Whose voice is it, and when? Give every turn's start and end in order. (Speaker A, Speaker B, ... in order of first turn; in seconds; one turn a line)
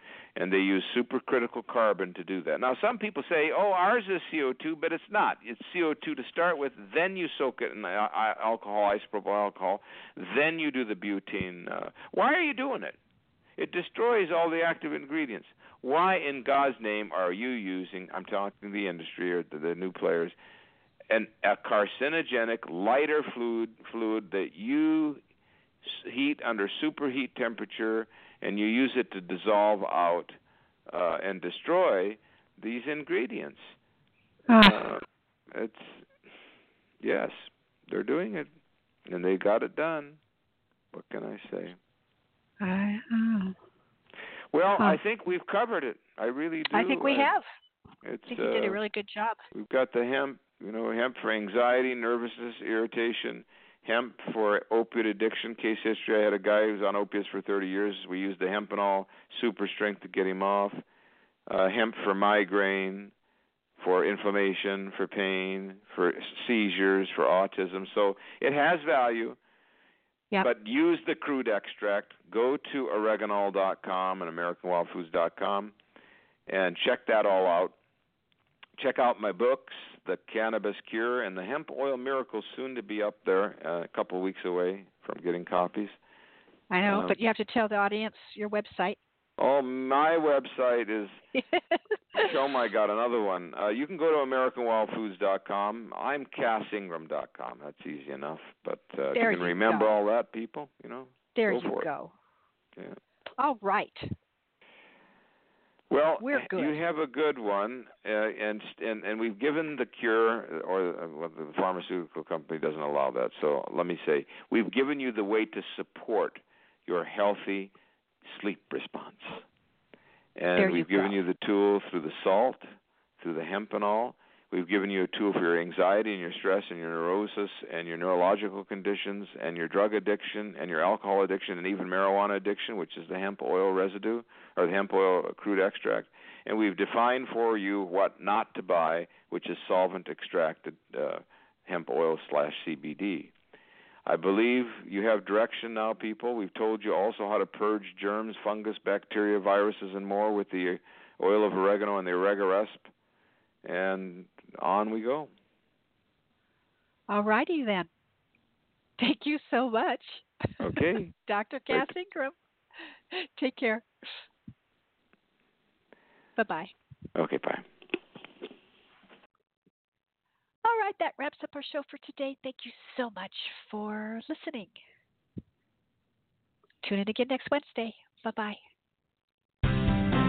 Speaker A: 0.4-13.0
Speaker A: 13.6-20.4
Speaker A: 21.1-25.2
Speaker A: 25.8-30.3
Speaker A: 30.9-33.7
Speaker B: 34.5-34.9
Speaker A: 34.6-36.1
Speaker A: 37.0-38.5
Speaker A: 39.1-40.2
Speaker A: 40.9-41.8
Speaker B: 42.6-43.6
Speaker A: 44.5-47.3
Speaker B: 46.7-47.5
Speaker A: 48.0-48.8
Speaker B: 48.3-49.4
Speaker A: 49.5-60.8
Speaker A: 61.5-63.1
Speaker A: 63.8-69.4
Speaker A: 70.4-75.8
Speaker A: 76.5-77.8
Speaker A: 78.8-86.0
Speaker B: 86.7-89.0
Speaker A: 86.9-87.2
Speaker A: 89.4-91.2
Speaker B: 91.3-92.3
Speaker A: 92.2-101.9
Speaker B: 99.2-99.9
Speaker B: 101.3-102.1
Speaker B: 103.4-104.1
Speaker A: 105.9-117.7
Speaker B: 106.2-106.8
Speaker A: 118.3-119.4
Speaker A: 120.4-122.7
Speaker B: 120.6-121.2
Speaker A: 123.2-143.3
Speaker A: 144.1-152.9
Speaker A: 153.7-155.3
Speaker B: 157.1-157.9
Speaker B: 159.0-162.3
Speaker A: 160.6-161.1
Speaker B: 163.1-163.9
Speaker B: 166.4-166.7
Speaker A: 167.2-167.7
Speaker B: 170.6-174.8
Speaker B: 176.8-178.6